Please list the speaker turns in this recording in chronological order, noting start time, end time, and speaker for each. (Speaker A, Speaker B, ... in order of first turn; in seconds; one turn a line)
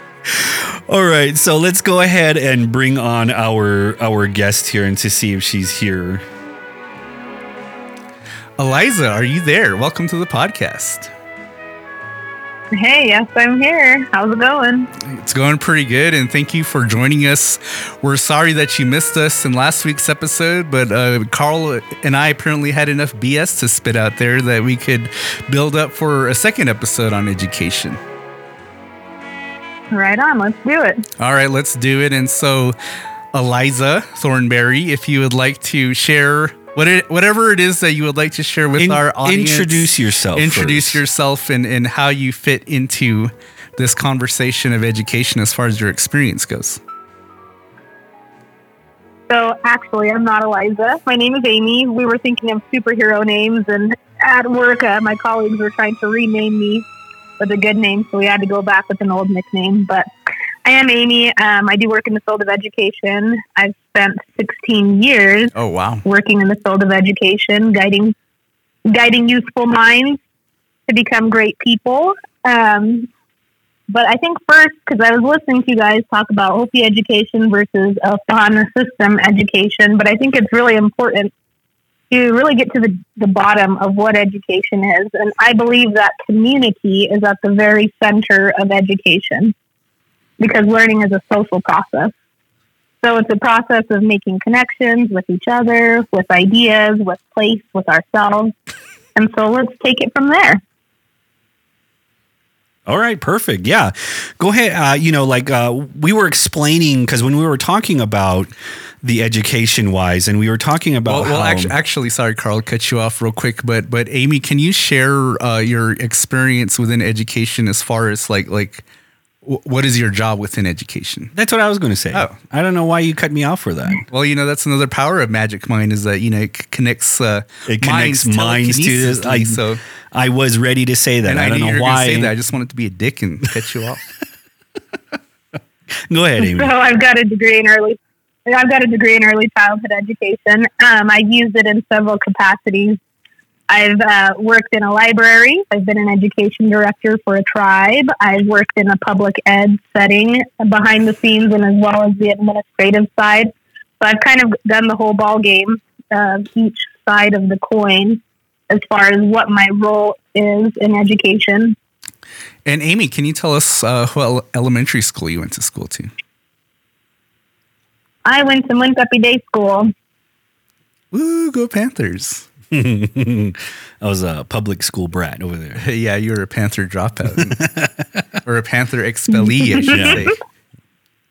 Speaker A: 0.3-6.2
Speaker B: 8.6-11.1
Speaker C: 12.7-14.9
Speaker B: 15.0-28.0
Speaker C: 29.9-31.1
Speaker B: 31.2-32.8
Speaker B: 33.3-46.8
Speaker A: 38.8-41.0
Speaker C: 49.3-56.9
Speaker C: 57.4-60.1
Speaker C: 60.6-65.5
Speaker B: 65.5-66.0
Speaker C: 66.0-68.2
Speaker C: 68.9-70.2
Speaker C: 70.9-73.1
Speaker C: 73.9-81.3
Speaker C: 82.1-89.5
Speaker C: 90.4-92.1
Speaker C: 93.0-98.5
Speaker C: 99.2-100.6
Speaker A: 102.9-111.7
Speaker B: 111.1-118.8
Speaker B: 119.4-121.3
Speaker A: 121.3-124.0
Speaker B: 124.1-129.8
Speaker A: 127.7-129.6
Speaker A: 130.1-132.3
Speaker B: 131.3-134.0
Speaker A: 136.0-136.7
Speaker C: 136.4-143.0
Speaker C: 143.7-161.8
Speaker B: 162.7-166.1
Speaker C: 168.2-169.9
Speaker B: 171.1-172.4
Speaker A: 172.7-175.8
Speaker B: 175.8-177.7
Speaker A: 177.6-177.9
Speaker B: 178.4-180.4
Speaker C: 179.6-180.2
Speaker A: 179.8-180.2